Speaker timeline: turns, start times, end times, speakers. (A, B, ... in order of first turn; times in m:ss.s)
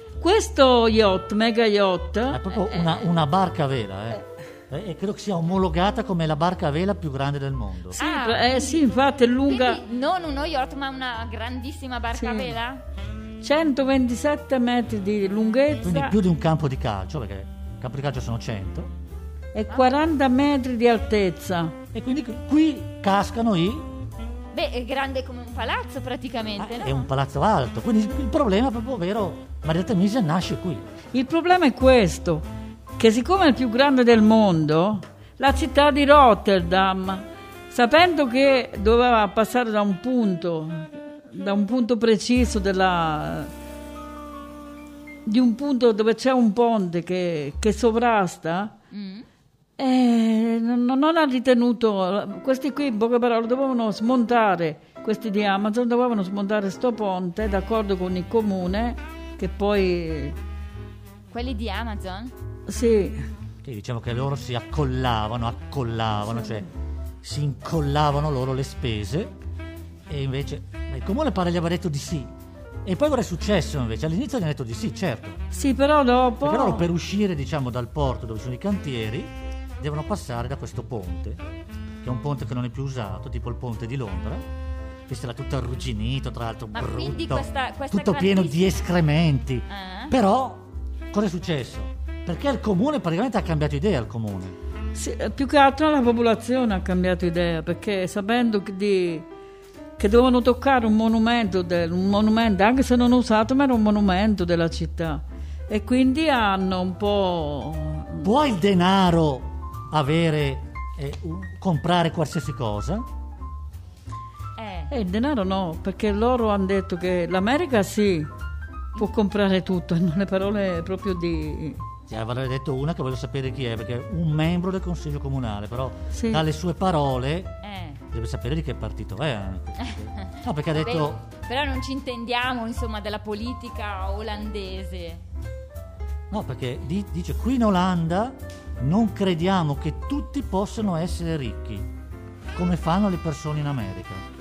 0:00.2-0:02.4 A
0:02.3-0:08.0 B
0:08.0-0:08.8 C
0:08.0-0:09.8 A
0:09.5-0:12.8 C
0:12.2-0:12.5 A
0:13.4-0:16.2 A
0:15.8-0:18.9 B
0:19.5-0:21.8 A
0:21.9-0:23.9 B
0:24.5-0:27.1 C
0:26.6-0:30.9 B
0:31.1-0:32.5 A
0:33.0-0:43.5 A
0:45.3-0:48.7 A
0:48.9-0:49.3 C
0:49.8-1:00.4 A
1:01.3-1:02.3 C
1:02.7-1:03.2 A
1:03.6-1:06.7 B
1:07.2-1:09.3 B
1:10.1-1:12.3 B
1:12.8-1:15.4 B
1:15.5-1:16.9 A
1:16.4-1:21.4 B
1:22.0-1:24.4 B
1:25.1-1:34.6 B
1:26.7-1:28.8 C
1:29.7-1:30.1 C
1:34.9-1:39.3 A
1:40.0-1:48.3 A
1:48.2-1:53.0 B
1:54.6-1:54.9 C
1:54.9-1:58.3 A
1:59.0-2:01.8 A
2:02.1-2:07.6 B
2:06.1-2:06.4 A
2:07.6-2:08.0 C
2:08.1-2:11.2 B
2:09.8-2:15.2 C
2:16.3-2:21.9 B
2:22.6-2:24.2 B